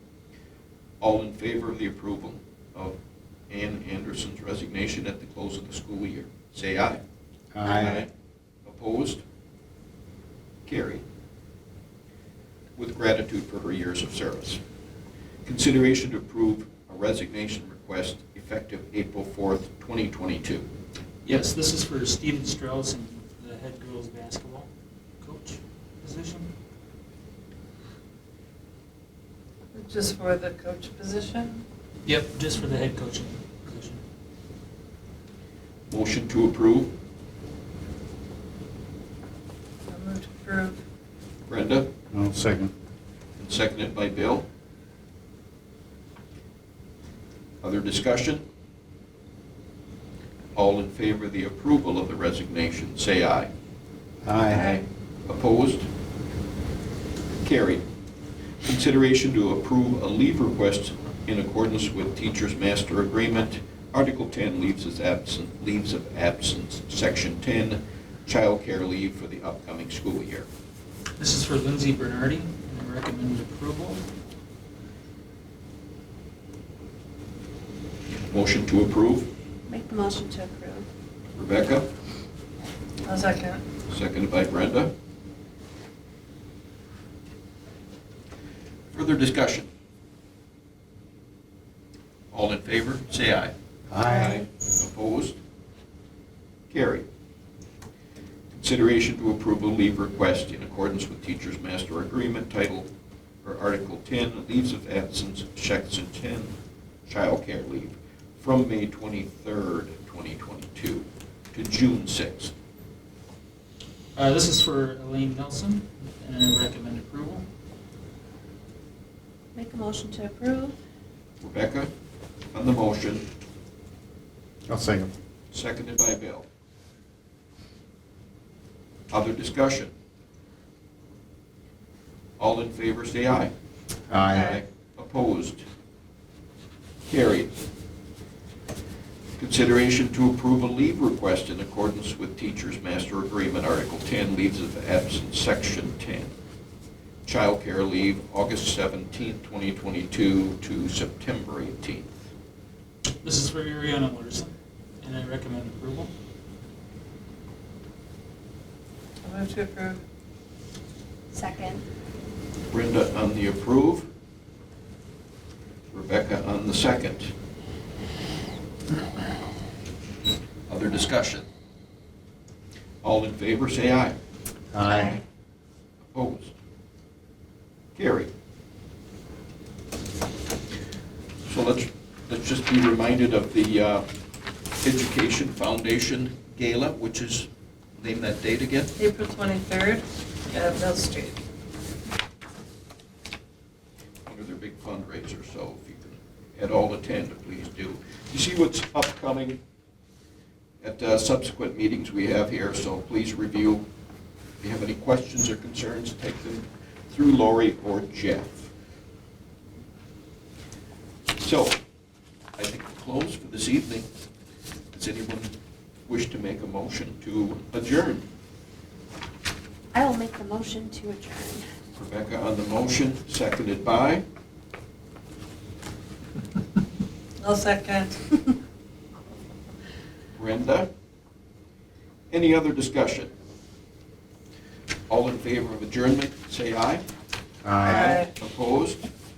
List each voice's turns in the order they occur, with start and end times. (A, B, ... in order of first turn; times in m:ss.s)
0:01.0-0:03.0 A
0:03.5-0:07.0 A
0:07.5-0:08.0 B
0:07.6-0:08.1 A
0:08.6-0:09.2 A
0:10.6-0:11.0 A
0:12.8-0:14.6 A
0:15.4-0:20.7 A
0:21.2-0:24.7 C
0:25.2-0:26.5 C
0:29.7-0:31.6 D
0:32.0-0:34.0 C
0:35.9-0:36.9 A
0:39.9-0:40.8 D
0:41.5-0:41.9 A
0:42.1-0:42.7 B
0:43.4-0:44.4 A
0:47.6-0:48.4 A
0:50.5-0:53.5 A
0:54.2-0:54.7 B
0:54.5-0:55.9 A
0:57.4-0:57.8 A
0:58.6-1:10.5 A
1:11.2-1:14.0 C
1:18.3-1:19.3 A
1:19.7-1:20.8 E
1:21.3-1:21.9 A
1:23.0-1:23.6 D
1:23.9-1:24.9 A
1:28.9-1:29.7 A
1:32.3-1:35.4 A
1:33.9-1:34.4 B
1:36.7-1:37.0 A
1:38.5-1:42.9 A
1:43.4-1:46.5 A
1:47.0-1:52.5 A
1:54.2-1:57.4 C
1:59.5-2:00.8 E
2:01.4-2:01.9 A
2:02.5-2:03.2 A
2:04.7-2:05.1 B
2:05.5-2:06.4 A
2:09.1-2:09.9 A
2:12.4-2:13.5 A
2:14.1-2:14.6 B
2:14.2-2:15.6 A
2:17.1-2:17.5 A
2:19.4-2:26.3 A
2:27.2-2:32.2 A
2:33.2-2:36.1 C
2:39.2-2:40.0 D
2:41.3-2:41.8 E
2:42.7-2:44.1 A
2:45.9-2:47.3 A
2:50.7-2:51.4 A
2:53.0-2:54.2 A
2:54.7-2:55.1 B
2:54.9-2:55.2 E
2:56.1-2:56.5 A
2:57.9-2:58.3 A
3:01.4-3:04.0 A
3:04.8-3:07.5 A
3:08.0-3:08.9 A
3:09.0-3:11.4 D
3:14.2-3:19.6 A
3:20.8-3:23.8 A
3:24.6-3:28.7 A
3:31.4-3:31.8 A
3:32.6-3:34.1 A
3:34.9-3:35.5 A
3:36.1-3:38.2 A
3:39.9-3:41.6 E
3:42.0-3:44.2 A
3:47.4-3:48.5 D
3:50.3-3:50.9 A
3:52.3-3:53.3 A
3:55.1-3:57.0 A
3:57.6-3:58.2 B
3:57.8-3:59.0 A
3:57.8-3:58.3 D